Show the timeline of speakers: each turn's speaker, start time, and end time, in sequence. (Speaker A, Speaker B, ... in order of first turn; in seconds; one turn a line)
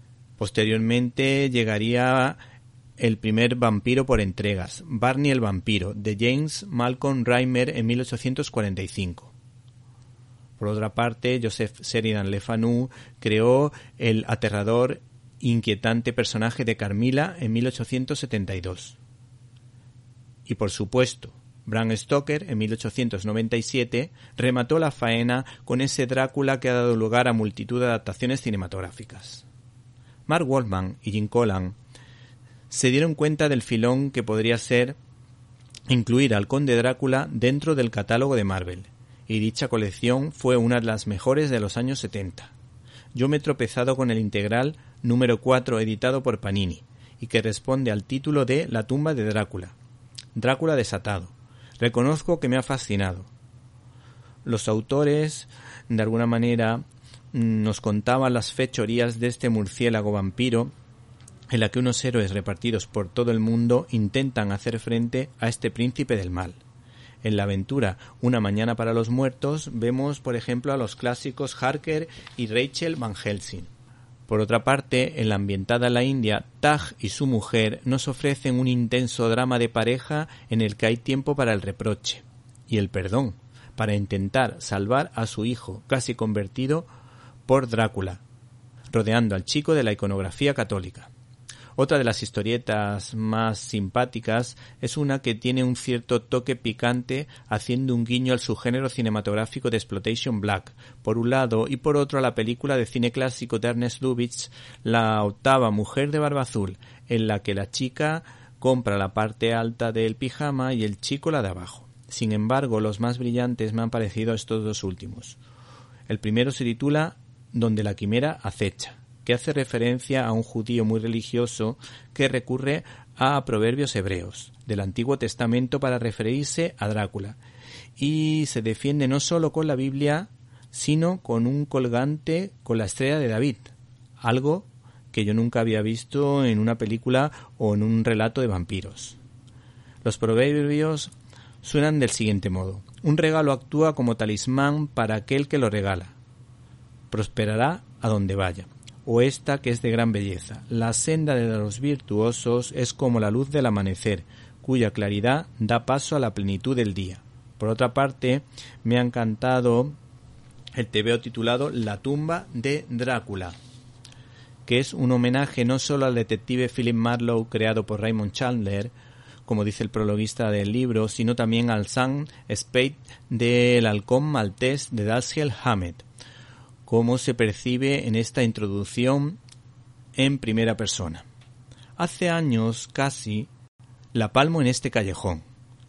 Speaker A: 0.4-2.4
Speaker A: 3.0-9.3
Speaker A: 10.6-19.0
Speaker A: 20.4-29.4
Speaker A: 30.3-31.8
Speaker A: 32.7-35.0
Speaker A: 35.9-42.5
Speaker A: 43.1-49.8
Speaker A: 50.3-53.3
Speaker A: 54.4-60.7
Speaker A: 61.5-66.6
Speaker A: 67.2-73.7
Speaker A: 74.3-86.9
Speaker A: 87.5-88.2
Speaker A: 88.9-91.1
Speaker A: 91.8-115.4
Speaker A: 116.1-127.4
Speaker A: 128.0-139.2
Speaker A: 140.0-146.2
Speaker A: 147.1-159.9
Speaker A: 160.7-163.6
Speaker A: 164.7-168.9
Speaker A: 169.4-176.0
Speaker A: 176.8-179.4
Speaker A: 180.2-181.2
Speaker A: 182.0-183.5
Speaker A: 184.1-185.4